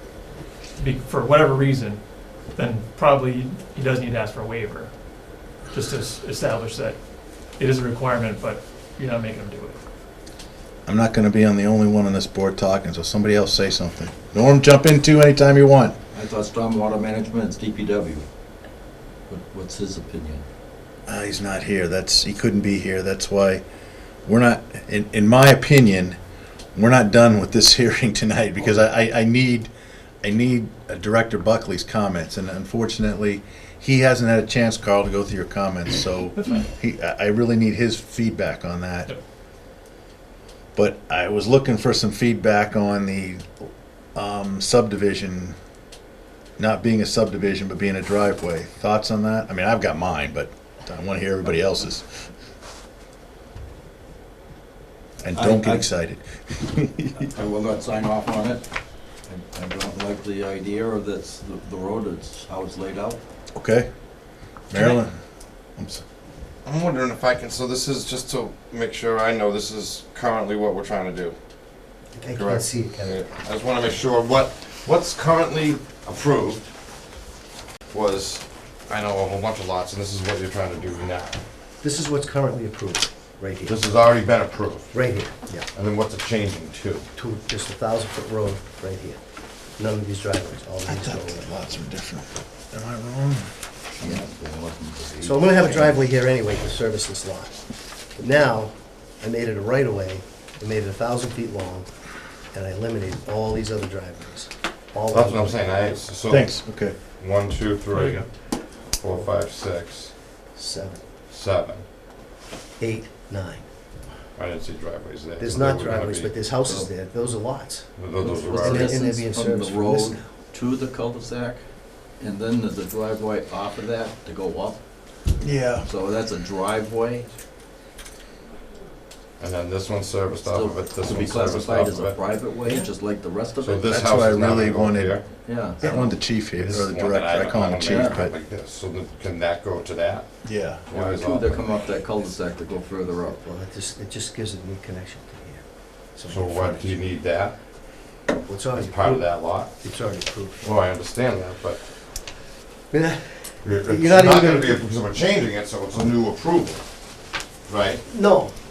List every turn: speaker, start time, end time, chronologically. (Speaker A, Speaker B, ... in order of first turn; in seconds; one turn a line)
Speaker A: 0.8-4.9
Speaker A: 5.7-9.8
Speaker B: 10.9-15.9
Speaker C: 16.1-18.2
Speaker C: 19.3-20.4
Speaker B: 21.1-23.6
Speaker B: 24.2-26.2
Speaker B: 26.7-29.7
Speaker B: 30.2-39.1
Speaker B: 40.8-45.5
Speaker B: 46.6-52.3
Speaker B: 55.2-57.3
Speaker C: 55.3-55.9
Speaker C: 57.3-58.7
Speaker C: 59.2-63.2
Speaker B: 63.5-63.9
Speaker B: 64.7-65.1
Speaker B: 65.8-66.0
Speaker D: 66.6-71.3
Speaker E: 72.1-73.2
Speaker D: 72.3-76.7
Speaker D: 77.9-81.4
Speaker E: 81.8-83.8
Speaker D: 83.6-85.0
Speaker E: 84.9-85.7
Speaker D: 85.7-87.0
Speaker E: 87.2-89.2
Speaker E: 89.8-91.5
Speaker B: 90.8-93.5
Speaker C: 94.0-95.9
Speaker E: 95.2-97.5
Speaker E: 98.2-101.9
Speaker E: 102.5-105.6
Speaker D: 105.1-110.1
Speaker B: 106.3-107.0
Speaker A: 107.9-108.2
Speaker E: 110.5-111.0
Speaker D: 111.3-111.8
Speaker E: 112.8-113.6
Speaker D: 114.3-116.4
Speaker E: 115.4-117.9
Speaker D: 118.0-119.0
Speaker C: 118.2-124.8
Speaker E: 118.5-120.3
Speaker B: 125.4-125.9
Speaker C: 125.8-127.3
Speaker D: 129.4-132.4
Speaker C: 130.4-133.9
Speaker D: 133.6-141.8
Speaker B: 133.8-138.3
Speaker C: 135.4-135.9
Speaker C: 137.9-138.2
Speaker B: 140.4-140.8
Speaker C: 140.9-143.4
Speaker E: 143.2-147.0
Speaker D: 146.2-147.6
Speaker E: 148.4-150.6
Speaker D: 148.7-149.8
Speaker D: 150.6-151.8
Speaker E: 152.9-154.8
Speaker D: 153.6-156.8
Speaker D: 157.7-158.0
Speaker E: 158.1-158.5